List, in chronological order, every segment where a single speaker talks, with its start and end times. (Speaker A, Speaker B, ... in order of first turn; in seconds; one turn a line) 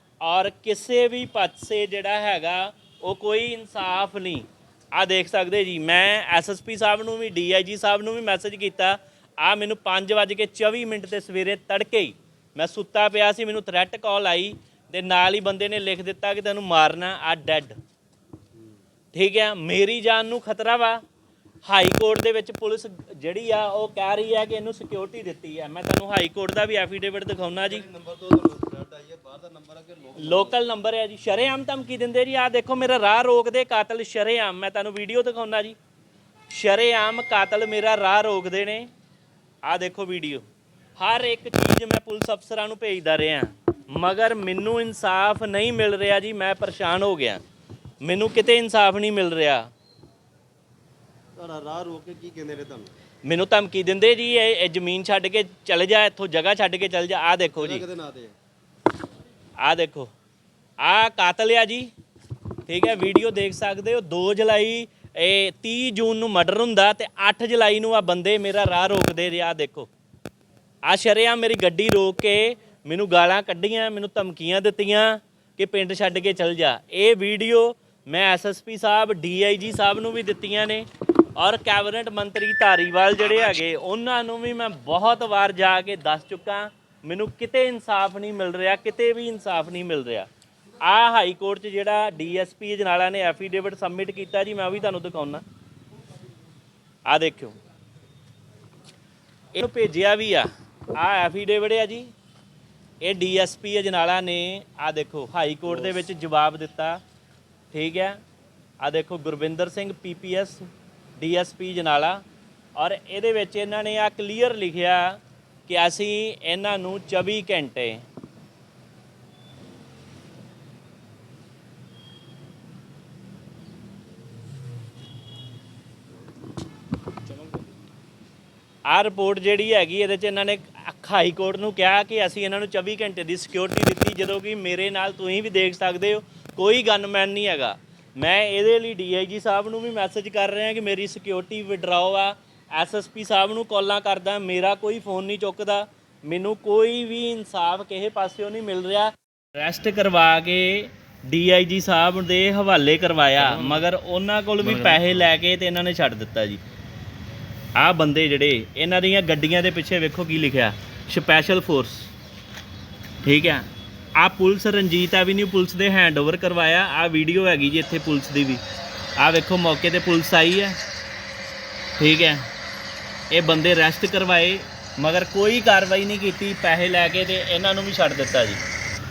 Speaker A: 0.2-17.8
Speaker A: 19.1-21.0
Speaker A: 21.7-27.9
Speaker B: 27.7-30.6
Speaker A: 30.2-35.8
Speaker A: 36.5-38.9
Speaker A: 39.6-40.5
Speaker A: 41.0-47.4
Speaker A: 48.0-49.7
Speaker B: 51.4-52.9
Speaker A: 53.2-57.8
Speaker B: 57.6-58.3
Speaker A: 59.6-60.1
Speaker A: 60.8-61.9
Speaker A: 62.7-69.9
Speaker A: 70.9-90.3
Speaker A: 90.8-95.4
Speaker A: 97.1-97.6
Speaker A: 99.5-102.1
Speaker A: 103.0-107.0
Speaker A: 107.7-108.2
Speaker A: 108.8-110.6
Speaker A: 111.2-112.2
Speaker A: 112.8-118.0
Speaker A: 128.9-156.6
Speaker A: 157.8-162.1
Speaker A: 163.2-168.6
Speaker A: 169.2-170.8
Speaker A: 172.0-172.4
Speaker A: 173.3-178.6